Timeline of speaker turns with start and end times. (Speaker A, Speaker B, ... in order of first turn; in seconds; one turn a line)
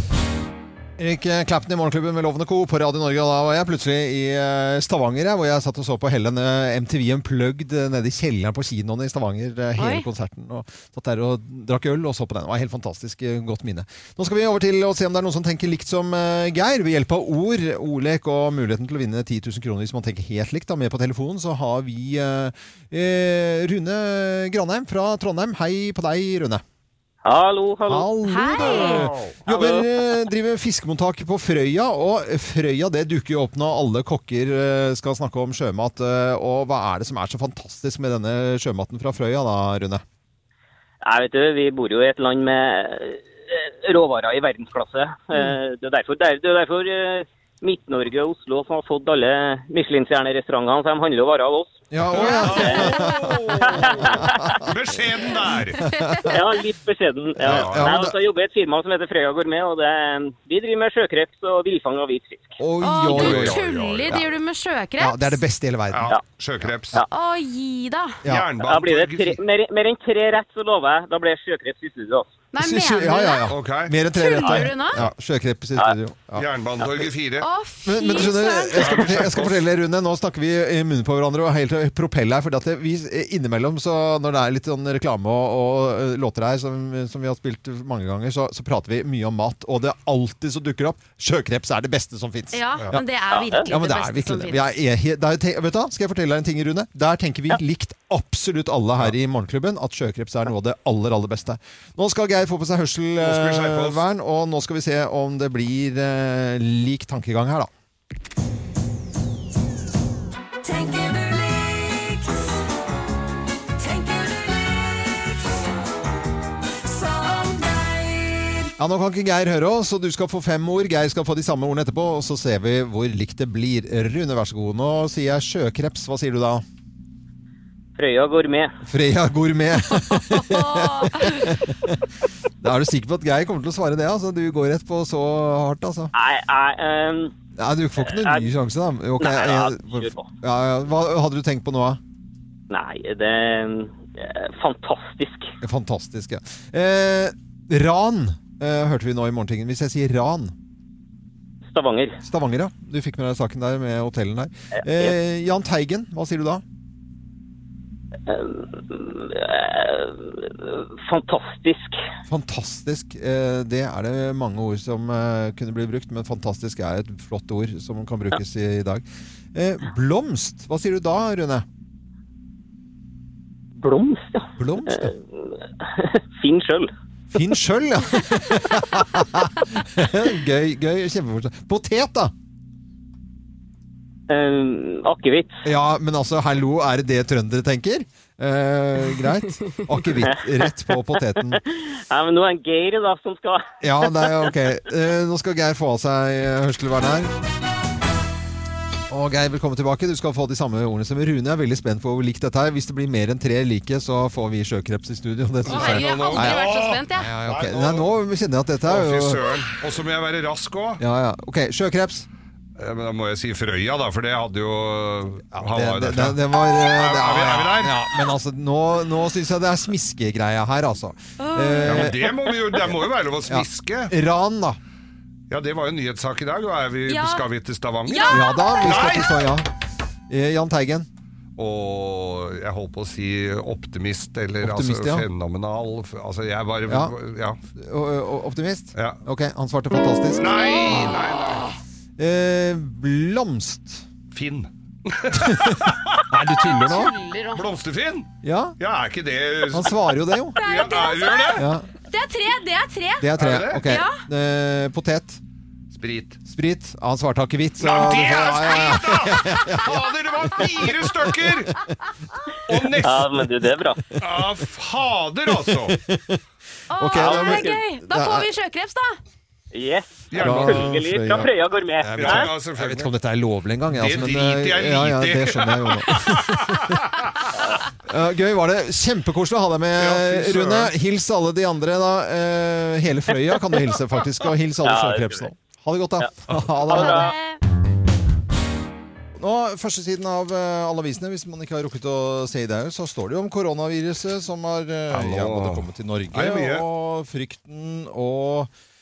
Speaker A: 1.0-26.6
Speaker B: 9.8-10.1
Speaker C: 27.2-28.1
Speaker A: 27.9-40.0
Speaker B: 28.2-29.1
Speaker D: 28.8-29.3
Speaker C: 29.5-29.9
Speaker C: 41.0-54.6
Speaker A: 51.9-54.7
Speaker D: 52.1-55.8
Speaker A: 55.8-56.3
Speaker C: 56.2-62.6
Speaker A: 57.4-58.1
Speaker D: 57.5-57.9
Speaker A: 62.6-63.6
Speaker B: 62.8-65.4
Speaker D: 63.1-64.2
Speaker A: 65.0-66.1
Speaker D: 65.9-67.0
Speaker B: 67.1-68.2
Speaker D: 68.2-69.4
Speaker C: 68.6-72.3
Speaker B: 72.5-73.5
Speaker A: 72.6-76.5
Speaker D: 73.5-73.9
Speaker B: 74.1-75.0
Speaker D: 76.3-77.5
Speaker B: 77.4-79.2
Speaker A: 77.8-93.1
Speaker D: 78.8-79.6
Speaker B: 92.5-94.6
Speaker C: 93.3-93.7
Speaker A: 93.7-107.7
Speaker D: 103.2-104.0
Speaker E: 110.6-112.5
Speaker E: 113.8-115.6
Speaker E: 116.8-118.7
Speaker A: 118.8-126.6
Speaker C: 128.0-128.7
Speaker A: 128.8-132.1
Speaker B: 130.3-131.6
Speaker A: 132.6-136.1
Speaker C: 136.1-137.3
Speaker A: 137.6-142.0
Speaker C: 138.0-138.5
Speaker C: 139.2-140.3
Speaker C: 142.7-145.5
Speaker A: 145.6-150.5
Speaker C: 151.7-152.2
Speaker A: 152.2-156.6
Speaker C: 154.8-155.2
Speaker C: 158.3-162.0
Speaker A: 162.3-171.6
Speaker C: 173.8-176.9
Speaker A: 174.6-175.1
Speaker A: 177.3-182.3
Speaker C: 184.3-185.5
Speaker A: 185.6-191.6
Speaker C: 190.2-190.7
Speaker C: 191.5-194.5
Speaker A: 193.8-197.3
Speaker A: 199.1-209.4
Speaker D: 205.7-208.1
Speaker B: 205.7-207.3
Speaker D: 208.8-211.0
Speaker A: 211.0-212.3
Speaker D: 212.8-218.0
Speaker A: 215.5-222.2
Speaker B: 221.4-222.3
Speaker D: 221.8-224.1
Speaker A: 223.5-224.8
Speaker D: 225.5-229.4
Speaker B: 227.1-227.4
Speaker B: 228.1-229.3
Speaker A: 228.3-229.7
Speaker A: 230.3-231.1
Speaker D: 231.6-237.6
Speaker A: 234.6-235.3
Speaker A: 236.9-237.1
Speaker A: 237.7-241.1
Speaker D: 238.9-239.2
Speaker D: 240.3-241.7
Speaker B: 240.4-241.1
Speaker A: 242.2-244.0
Speaker D: 244.3-246.2
Speaker A: 245.3-247.1
Speaker B: 246.6-247.6
Speaker D: 247.5-251.7
Speaker A: 248.4-248.8
Speaker A: 249.7-250.6
Speaker B: 250.6-253.3
Speaker A: 251.5-251.9
Speaker A: 253.2-255.4
Speaker D: 253.4-253.9
Speaker B: 253.8-254.2
Speaker D: 255.9-256.4
Speaker A: 256.4-259.9
Speaker D: 257.8-261.7
Speaker A: 260.5-261.4
Speaker D: 262.7-263.5
Speaker C: 263.0-264.2
Speaker D: 264.2-266.0
Speaker A: 265.6-266.4
Speaker B: 266.9-269.2
Speaker A: 266.9-268.5
Speaker C: 267.1-267.8
Speaker C: 269.7-272.5
Speaker D: 270.3-271.0
Speaker A: 270.4-271.5
Speaker A: 272.0-277.0
Speaker D: 272.1-273.1
Speaker D: 273.9-277.5
Speaker A: 278.1-287.3
Speaker D: 280.0-280.9
Speaker C: 284.8-285.4
Speaker C: 286.8-287.3
Speaker B: 286.9-287.6
Speaker A: 289.4-298.7
Speaker D: 295.1-296.9